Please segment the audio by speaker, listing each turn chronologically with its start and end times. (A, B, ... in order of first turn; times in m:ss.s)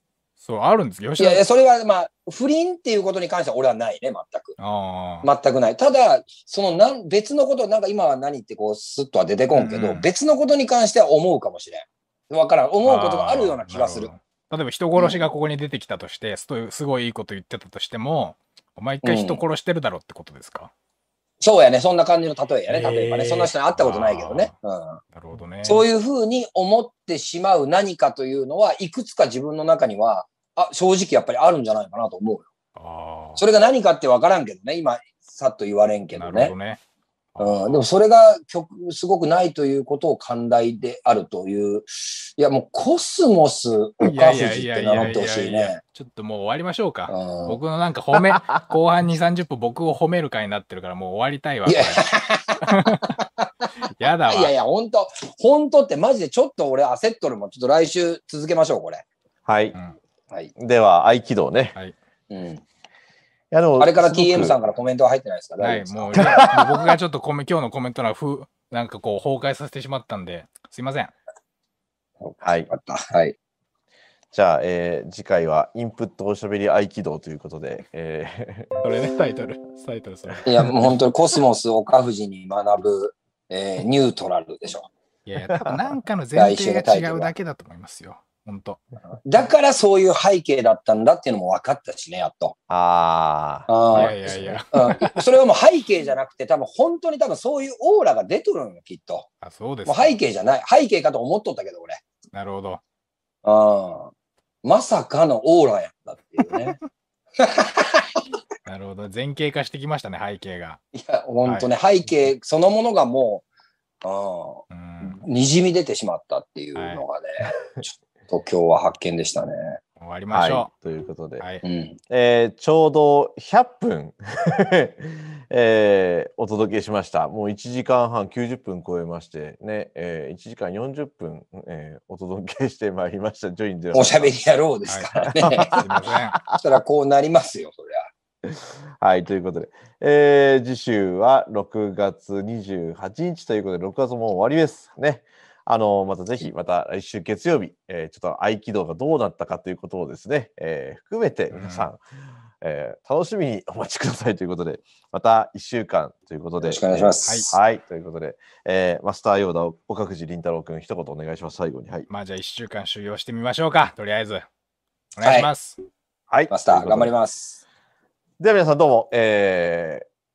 0:00.4-0:01.4 A
0:01.2-0:04.6 B
0:04.6-0:05.3 A
0:05.2-0:14.1 B
0:09.5-0:10.1 A
0:12.8-0:20.7 A
0:15.0-0:15.3 B
0:19.0-0:19.4 B
0:21.4-0:25.0 B
0:22.7-0:24.5 A
0:25.1-0:25.8 A
0:25.6-0:32.5 B
0:32.8-0:33.4 A
0:33.4-0:36.5 B
0:36.1-0:36.8 A
0:37.3-0:37.8 A
0:37.4-0:45.8 B
0:44.0-0:52.1 A
0:47.1-0:47.6 B
0:48.3-0:48.7 C
0:51.7-0:53.7 B
0:52.6-0:53.2 A
0:54.0-0:54.5 A
0:54.3-0:59.0 B
0:59.4-0:59.8 C
1:00.6-1:01.8 C
1:02.3-1:02.6 B
1:03.5-1:04.6 C
1:03.8-1:06.8 B
1:05.6-1:11.1 A
1:06.1-1:06.6 C
1:12.2-1:13.4 B
1:12.4-1:12.7 C
1:14.3-1:19.0 C
1:18.8-1:20.5 A
1:20.4-1:24.9 B
1:25.2-1:28.8 A
1:26.4-1:27.3 B
1:29.2-1:32.6 B
1:32.7-1:34.6 C
1:33.7-1:39.3 B
1:33.9-1:35.2 A
1:39.4-1:40.2 A
1:39.8-1:42.0 B
1:42.3-1:42.8 A
1:43.4-1:44.1 B
1:44.6-1:46.8 B
1:47.4-1:48.2 B
1:48.6-1:50.8 A
1:50.9-1:53.4 B
1:54.0-1:59.8 B
1:54.7-1:55.2 A
1:56.8-1:57.0 A
2:00.0-2:00.7 A
2:00.3-2:01.4 C
2:01.4-2:01.6 A
2:01.6-2:02.0 B
2:02.1-2:14.3 C
2:13.9-2:15.8 B
2:14.9-2:16.4 A
2:15.4-2:15.8 C
2:16.6-2:18.1 B
2:18.4-2:32.0 C
2:31.5-2:31.9 A
2:32.6-2:42.1 C
2:36.6-2:37.6 B
2:42.1-2:44.4 A
2:45.2-2:45.8 A
2:45.2-2:45.5 B
2:46.3-2:47.1 C
2:46.5-2:47.6 B
2:48.4-2:50.1 C